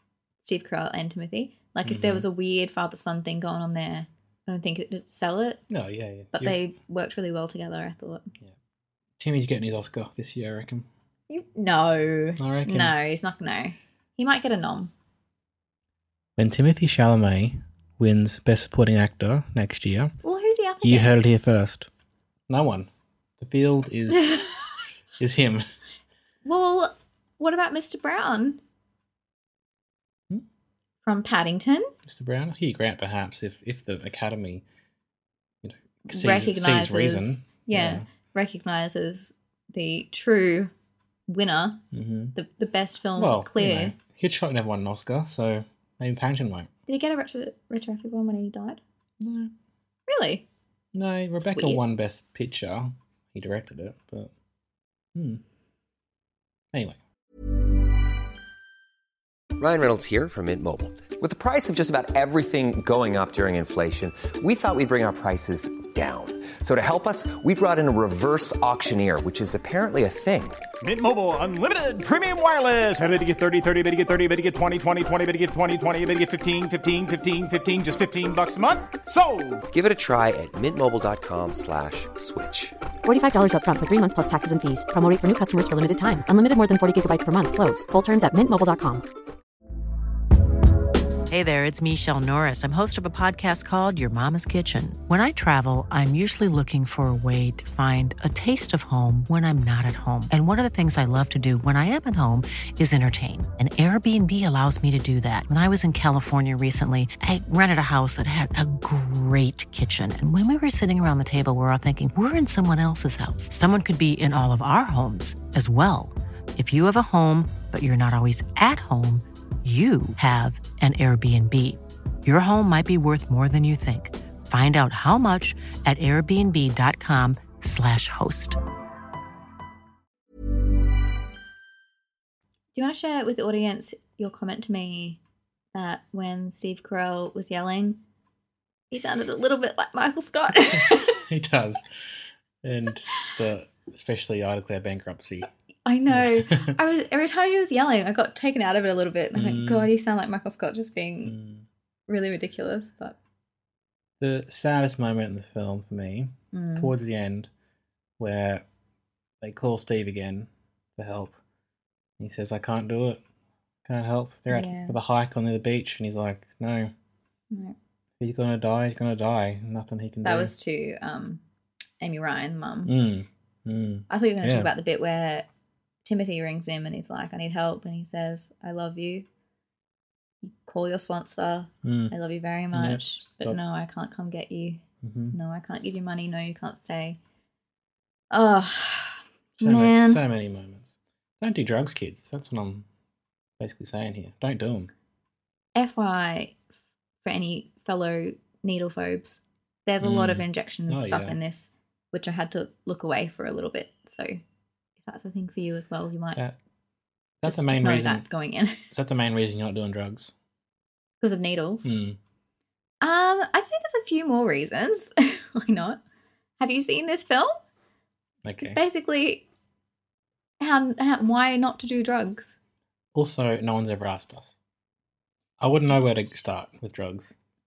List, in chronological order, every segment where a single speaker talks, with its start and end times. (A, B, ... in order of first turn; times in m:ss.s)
0:00.4-0:05.6 A
0:01.8-0:02.3 B
0:05.7-0:06.6 B
0:06.3-0:08.3 A
0:09.2-0:10.9 B
0:11.3-0:14.9 A
0:12.4-0:13.0 B
0:16.4-0:20.1 B
0:20.2-0:21.6 A
0:20.8-0:21.9 B
0:22.5-0:24.4 B
0:25.2-0:25.6 B
0:26.4-0:28.6 A
0:31.0-0:31.9 A
0:32.1-0:34.6 B
0:35.6-0:38.1 B
0:36.1-0:40.7 A
0:41.3-0:41.8 A
0:41.9-0:42.4 B
0:42.4-0:44.0 A
0:43.2-0:46.7 B
0:46.9-0:48.8 A
0:49.2-0:49.5 B
0:50.1-0:50.5 A
0:50.9-0:54.3 B
0:51.4-0:51.8 A
0:55.2-0:55.4 B
0:56.7-0:57.0 B
0:59.6-1:10.6 C
1:10.8-1:19.7 D
1:19.7-1:22.8 C
1:23.0-1:29.1 E
1:31.3-2:08.6 F
2:12.7-2:15.2 A
2:15.7-2:18.0 A
2:18.9-2:21.2 A
2:20.7-2:21.8 B
2:22.6-2:25.5 B
2:25.8-2:31.3 A
2:26.1-2:26.8 B
2:29.4-2:29.9 B
2:31.2-2:31.6 B
2:32.1-2:33.2 A
2:34.2-2:37.5 B
2:36.5-2:36.9 A
2:38.2-2:38.6 B
2:39.4-2:41.4 B
2:42.2-2:43.2 B
2:43.8-2:46.9 B
2:44.5-2:45.0 A
2:48.2-2:50.5 B
2:50.2-2:51.4 A
2:52.0-2:52.9 A
2:52.8-2:54.7 B
2:54.1-2:55.5 A
2:56.0-2:59.3 A
3:00.5-3:04.8 A
3:01.8-3:02.1 B
3:02.7-3:03.6 B
3:05.0-3:05.4 B
3:05.3-3:07.2 A
3:08.3-3:10.2 A
3:09.6-3:12.9 B
3:13.6-3:14.9 B
3:15.8-3:16.6 A
3:17.2-3:24.4 A
3:20.0-3:21.4 B
3:25.0-3:26.4 A
3:27.4-3:28.3 B
3:27.4-3:28.8 A
3:28.9-3:30.3 B
3:31.2-3:32.0 A
3:31.8-3:32.2 B
3:33.0-3:36.0 A
3:36.6-3:37.6 A
3:38.4-3:38.8 B
3:38.6-3:39.4 A
3:40.6-3:42.6 A
3:43.2-3:44.5 B
3:45.6-3:47.3 B